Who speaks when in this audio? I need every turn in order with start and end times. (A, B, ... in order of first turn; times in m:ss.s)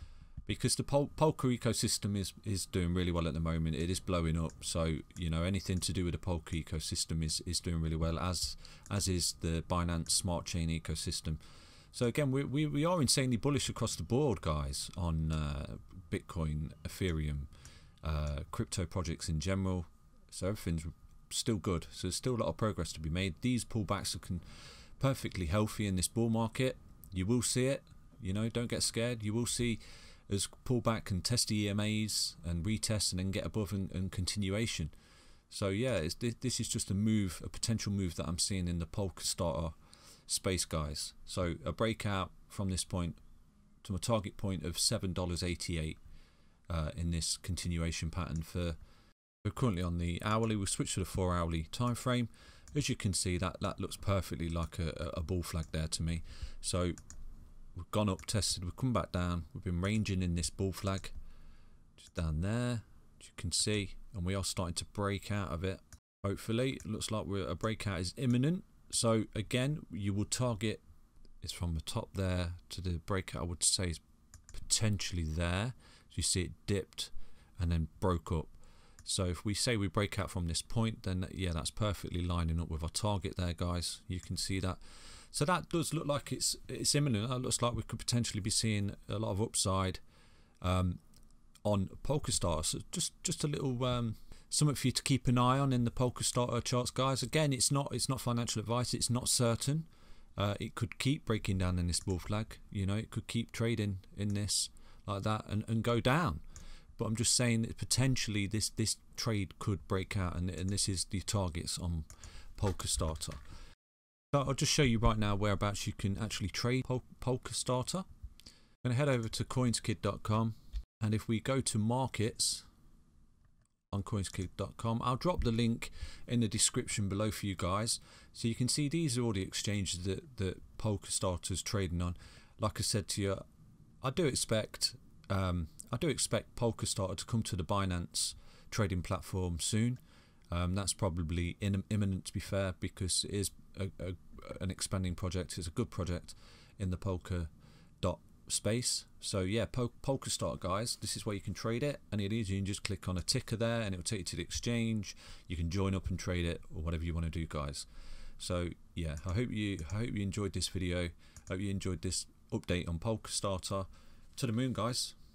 0:00.4-0:11.4 A
0:11.9-0:17.5 A
0:18.0-0:34.9 A
0:35.5-0:39.8 A
0:40.3-0:43.2 A
0:43.8-0:46.0 A
0:46.7-0:48.8 A
0:49.4-0:57.0 A
0:57.8-1:01.1 A
1:02.0-1:10.8 A
1:11.4-1:14.0 A
1:14.5-1:18.5 A
1:19.0-1:30.0 A
1:30.6-1:31.0 A
1:31.6-1:46.4 A
1:47.0-1:53.4 A
1:54.3-1:58.0 A
1:58.8-2:02.6 A
2:03.9-2:13.4 A
2:14.0-2:20.0 A
2:20.5-2:27.5 A
2:28.0-2:37.9 A
2:38.4-2:45.2 A